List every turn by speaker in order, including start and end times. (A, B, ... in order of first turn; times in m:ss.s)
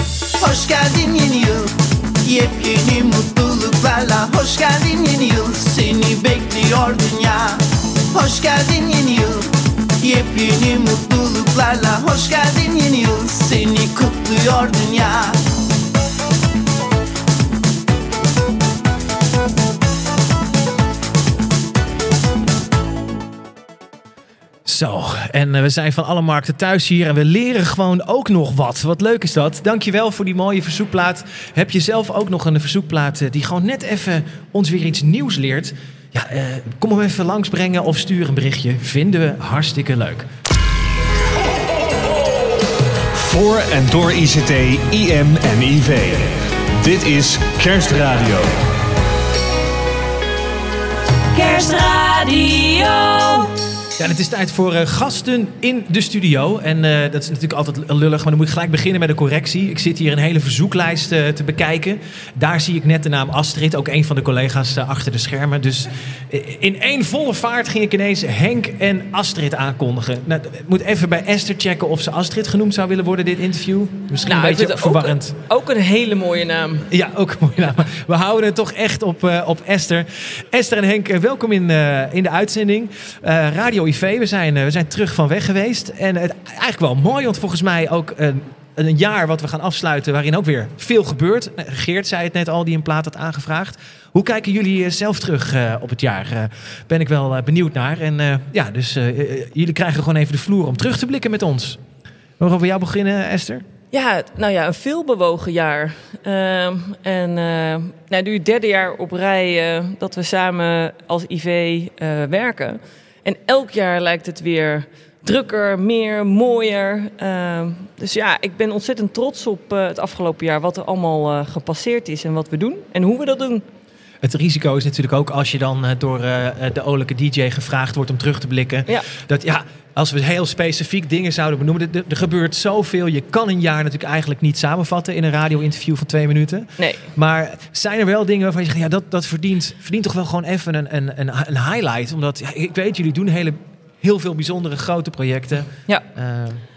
0:00.4-0:15.4 A
0:24.6-0:40.2 B
0:43.1-0:48.6 C
0:51.3-0:53.5 D
0:54.0-1:15.3 B
1:14.2-1:16.8 E
1:16.9-1:41.8 B
1:42.4-1:43.6 B
1:43.9-2:03.6 E
2:04.2-2:26.6 B
2:16.8-2:17.1 E